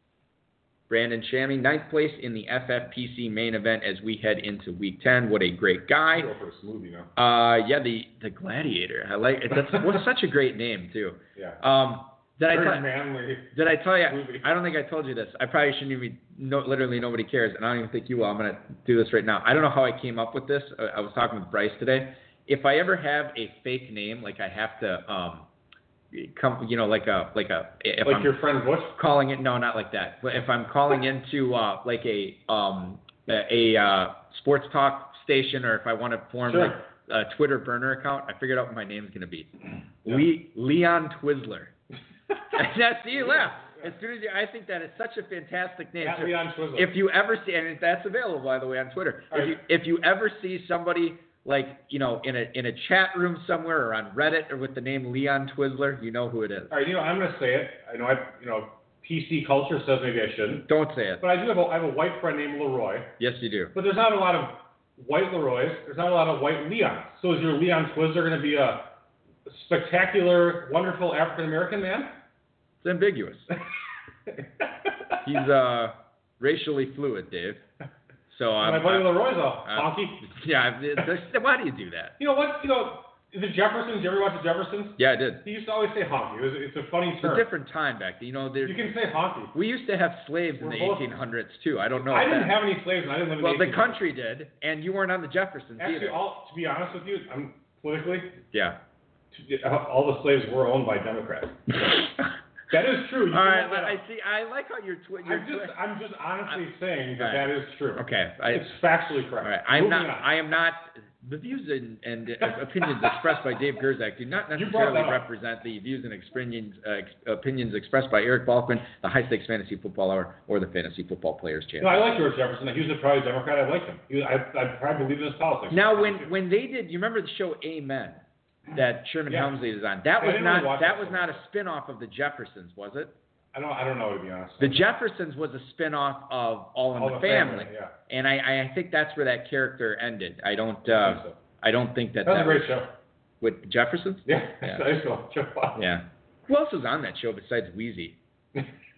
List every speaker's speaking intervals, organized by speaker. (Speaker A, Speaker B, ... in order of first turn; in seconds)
Speaker A: 0.9-6.3, 7.2-12.9, 13.5-25.5, 26.1-28.3, 28.9-39.5, 40.0-41.7, 42.5-56.7, 60.7-61.2, 63.2-63.7, 72.8-73.5, 75.2-77.6, 78.3-82.2, 85.0-85.4, 87.2-88.8, 89.5-92.6, 93.4-96.2, 98.5-98.8, 103.3-105.8, 107.2-108.7, 109.4-122.0, 125.7-128.2, 128.7-133.1, 134.6-142.7, 143.4-144.8, 145.8-148.2
Speaker B: 6.1-7.1, 11.4-11.6, 12.5-13.6, 14.1-14.5, 28.1-29.0, 36.5-36.8, 43.3-43.9, 46.0-46.9, 56.7-60.7, 61.2-63.1, 63.7-68.9, 69.5-72.2, 78.6-80.3, 82.2-87.5, 88.6-89.5, 90.6-91.1, 92.1-94.0, 95.8-98.4, 99.3-102.0, 102.7-104.0, 105.2-110.3, 114.5-115.2, 121.8-126.3, 129.3-129.5, 130.2-131.4, 133.5-134.8, 136.9-137.9, 140.9-141.4, 142.2-142.9, 144.3-145.8